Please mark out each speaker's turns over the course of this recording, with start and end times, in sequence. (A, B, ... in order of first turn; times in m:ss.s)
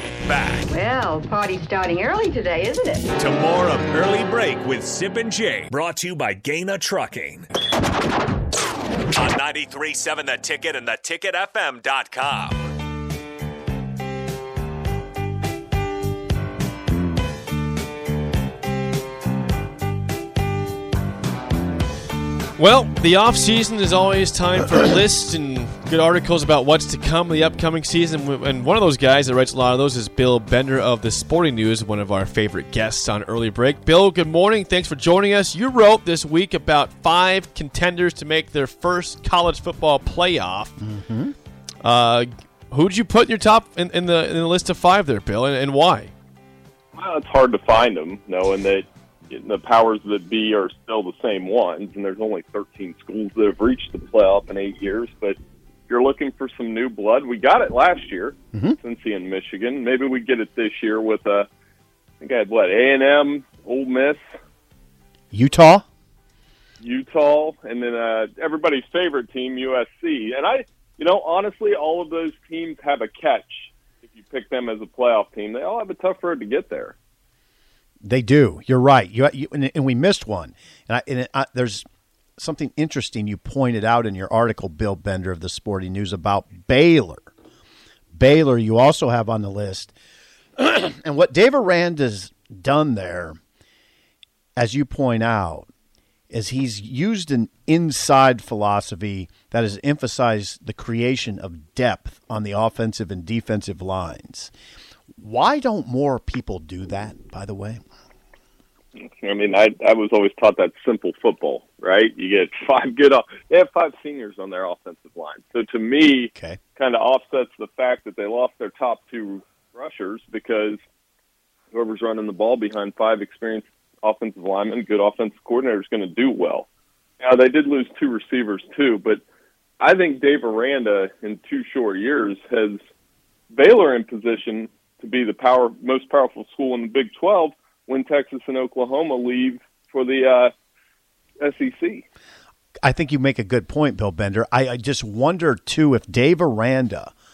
0:00.2-0:00.8 A
0:00.7-0:03.1 B
0:03.2-0:07.5 A
0:09.1-0:12.6 A
0:22.6-0:40.8 C
0:40.8-0:41.3 D
0:41.8-0:46.1 C
0:46.9-0:55.4 E
0:55.9-1:01.5 E
0:58.5-0:58.8 D
1:02.2-1:04.2 E
1:05.3-1:05.8 D
1:06.8-1:16.9 E
1:18.0-1:21.8 D
1:22.4-1:27.3 D
1:28.1-1:29.9 D
1:30.6-1:33.4 D
1:34.6-1:35.7 D
1:36.3-1:44.5 D
1:45.2-1:47.8 D
1:49.2-2:00.8 E
2:01.7-2:06.6 E
2:07.2-2:09.2 E
2:09.8-2:12.8 E
2:13.5-2:20.5 E
2:21.4-2:22.0 E
2:22.8-2:27.1 D